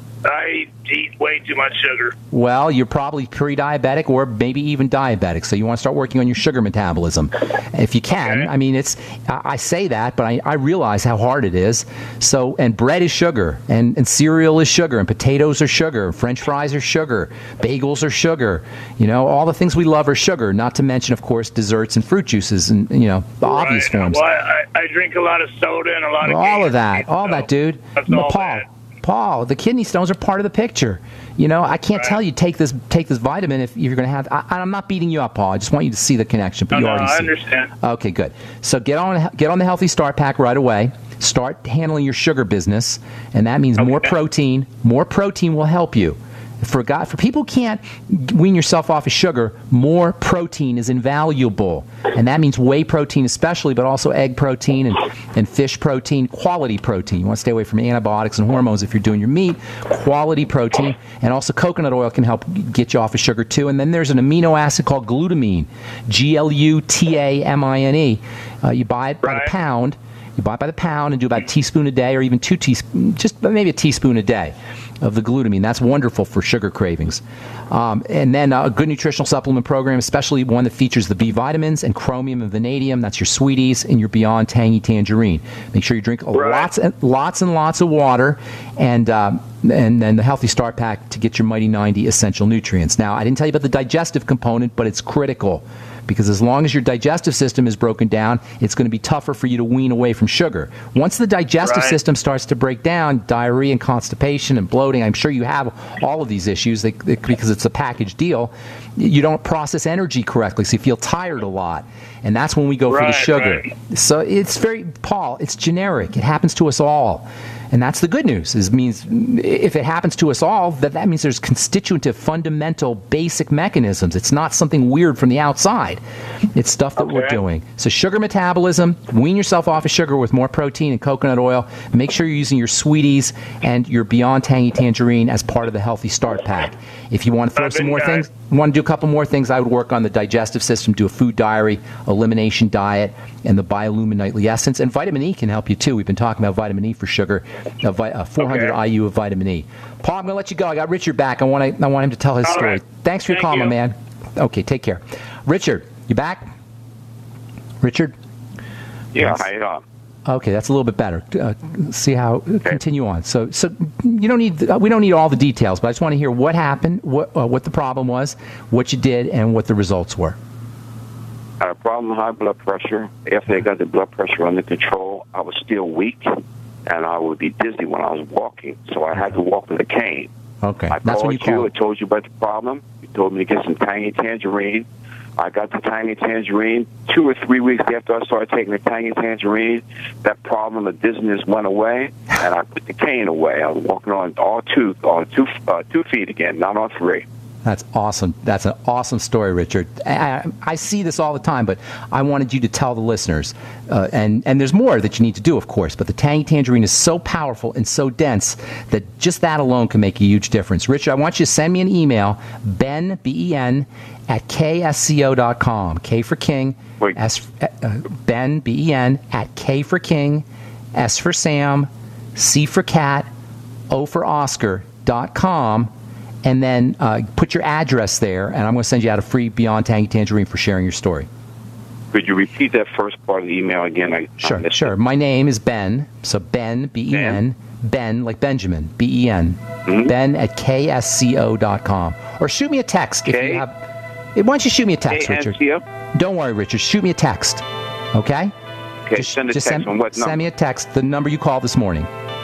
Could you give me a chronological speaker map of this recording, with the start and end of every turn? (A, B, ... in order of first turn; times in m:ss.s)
0:00.2-0:02.2 A
0:02.3-0:24.2 B
0:08.1-0:08.5 A
0:23.4-0:28.7 A
0:26.2-2:06.0 B
0:36.7-0:37.7 A
0:43.8-0:44.1 A
1:09.2-1:09.5 A
1:26.3-1:26.7 A
1:41.6-1:42.0 A
1:52.9-1:53.7 A
2:06.6-2:36.5 B
2:07.0-2:07.4 A
2:17.6-2:18.3 A
2:28.4-2:28.8 A
2:32.4-2:33.8 A
2:37.8-2:38.2 B
2:39.1-2:39.8 C
2:40.3-2:50.4 B
2:51.6-2:56.3 C
2:56.9-3:00.3 C
3:00.6-3:01.7 B
3:00.9-3:04.9 C
3:05.4-3:17.3 C
3:17.6-3:43.3 B
3:43.9-3:45.9 B
3:46.4-3:51.3 B
3:52.1-3:55.0 C
3:54.4-4:03.8 B
3:57.1-3:57.4 C
4:03.3-4:03.6 C
4:04.4-4:05.6 B
4:05.1-4:05.8 C
4:06.2-4:08.5 B
4:09.1-4:10.4 C
4:09.2-4:12.1 B